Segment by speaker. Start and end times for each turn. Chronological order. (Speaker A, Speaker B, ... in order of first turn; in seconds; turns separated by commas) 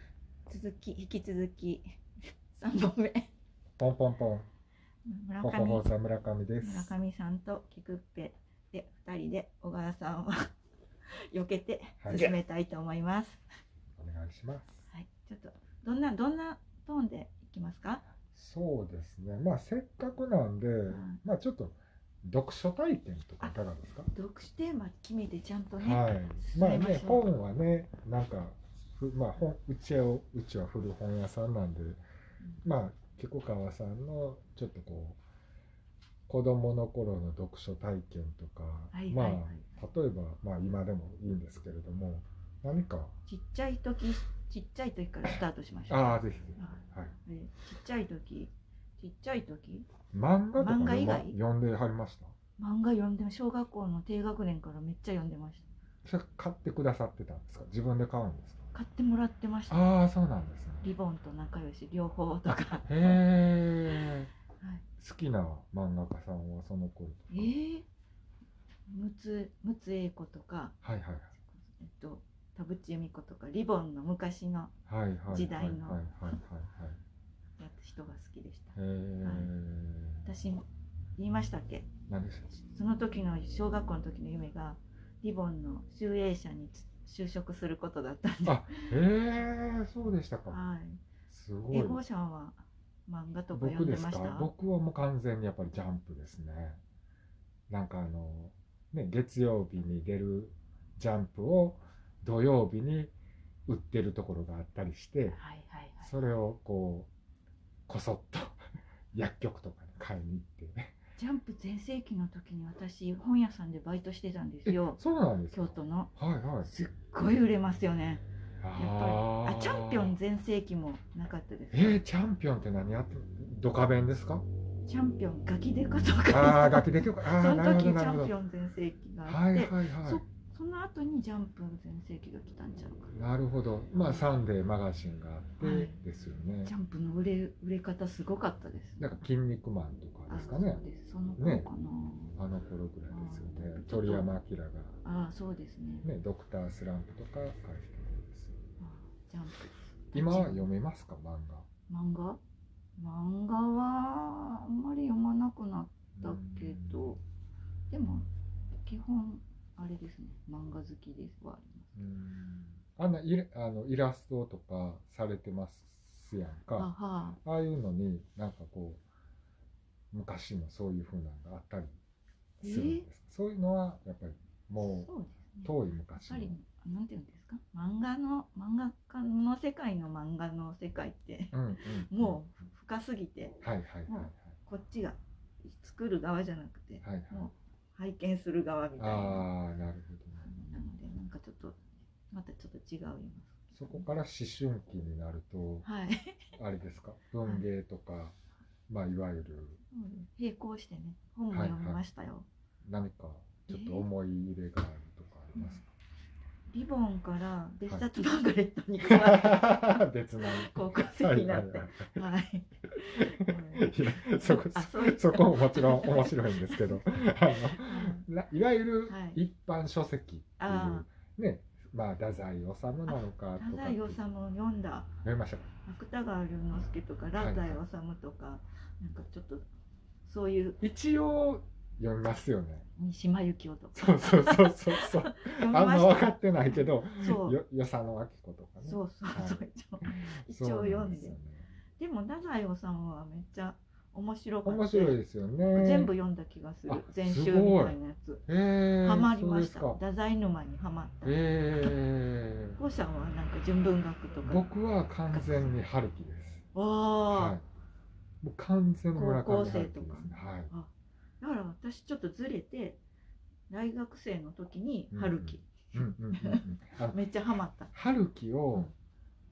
Speaker A: 0.5-2.0, Speaker A: 2.5-3.3, Speaker B: 3.8-4.5, Speaker A: 5.0-5.9, Speaker B: 5.4-7.0, Speaker A: 6.6-10.5, Speaker A: 11.3-13.4, Speaker B: 12.0-12.3, Speaker B: 13.9-14.8, Speaker A: 14.9-18.0, Speaker B: 18.3-24.1, Speaker A: 20.9-21.2, Speaker A: 24.1-27.3, Speaker B: 25.8-32.0, Speaker B: 32.6-35.2, Speaker B: 36.3-43.1, Speaker A: 38.9-39.6, Speaker A: 43.2-49.9, Speaker B: 45.9-47.1, Speaker B: 50.1-52.3, Speaker A: 50.6-51.4, Speaker A: 52.6-55.6, Speaker B: 56.0-58.7, Speaker A: 58.7-59.9, Speaker B: 59.7-60.8, Speaker A: 60.8-63.2, Speaker B: 62.9-64.3, Speaker A: 63.9-64.8, Speaker B: 65.0-67.5, Speaker A: 67.3-67.8, Speaker A: 68.9-70.8, Speaker B: 70.8-71.3, Speaker A: 71.3-74.7, Speaker B: 74.9-77.0, Speaker A: 75.3-76.1, Speaker A: 77.6-79.5, Speaker B: 78.8-80.3, Speaker A: 80.2-80.6, Speaker A: 81.2-81.9, Speaker B: 82.1-82.6, Speaker A: 82.7-88.9, Speaker B: 88.4-90.6, Speaker A: 90.5-91.0, Speaker B: 91.3-92.0, Speaker A: 91.7-94.5, Speaker B: 93.5-96.8, Speaker B: 97.7-103.1, Speaker B: 103.7-105.4, Speaker A: 105.3-106.1, Speaker B: 106.0-107.1, Speaker B: 107.9-108.6, Speaker B: 109.1-111.0, Speaker A: 111.2-115.0, Speaker B: 114.7-116.7, Speaker A: 115.5-116.1, Speaker A: 116.6-122.0, Speaker B: 118.6-120.2, Speaker B: 121.7-124.5, Speaker A: 124.8-133.1, Speaker B: 126.3-128.3, Speaker B: 129.2-130.2, Speaker B: 133.1-136.7, Speaker A: 133.9-134.3, Speaker A: 135.6-136.0, Speaker A: 136.6-139.1, Speaker B: 139.0-140.8, Speaker A: 140.3-142.4, Speaker B: 141.4-141.7, Speaker B: 142.4-145.0, Speaker A: 143.1-144.3, Speaker A: 145.0-146.1, Speaker B: 146.0-148.6, Speaker A: 148.8-150.7, Speaker B: 150.1-151.7, Speaker A: 151.9-152.4, Speaker A: 153.0-157.2, Speaker B: 156.2-157.2, Speaker A: 157.9-158.3, Speaker A: 158.8-162.0, Speaker B: 162.0-166.9, Speaker A: 166.8-167.4, Speaker B: 167.4-169.0, Speaker B: 170.1-172.0, Speaker B: 172.6-175.1, Speaker A: 172.6-173.1, Speaker A: 174.8-189.5, Speaker B: 175.6-176.6, Speaker B: 181.5-182.4, Speaker B: 183.6-184.5, Speaker B: 187.0-187.5, Speaker B: 189.0-190.5, Speaker A: 190.4-194.1, Speaker B: 193.7-195.9, Speaker A: 195.8-196.4, Speaker B: 196.6-198.4, Speaker B: 198.9-199.8, Speaker A: 199.9-202.5, Speaker B: 201.5-202.0, Speaker B: 202.8-205.9, Speaker A: 203.7-204.1, Speaker A: 205.6-205.8, Speaker A: 206.7-218.3, Speaker B: 209.1-212.2, Speaker B: 213.1-224.2, Speaker A: 219.1-219.4, Speaker A: 220.6-221.1, Speaker A: 223.1-225.1, Speaker B: 225.2-225.7, Speaker A: 225.8-229.7, Speaker B: 227.4-227.8, Speaker A: 230.2-230.8, Speaker B: 230.8-232.9, Speaker A: 233.0-237.6, Speaker B: 233.9-241.7, Speaker A: 238.8-241.4, Speaker A: 242.0-245.2, Speaker B: 244.7-246.1, Speaker A: 245.7-248.4, Speaker B: 246.9-250.0, Speaker A: 249.0-252.0, Speaker B: 251.2-252.8, Speaker A: 252.8-254.7, Speaker B: 254.4-256.6, Speaker A: 255.3-255.7, Speaker A: 256.7-257.6, Speaker B: 257.3-257.6, Speaker B: 258.4-260.7, Speaker A: 259.1-263.0, Speaker A: 263.7-267.9, Speaker B: 265.1-267.2, Speaker B: 267.9-268.9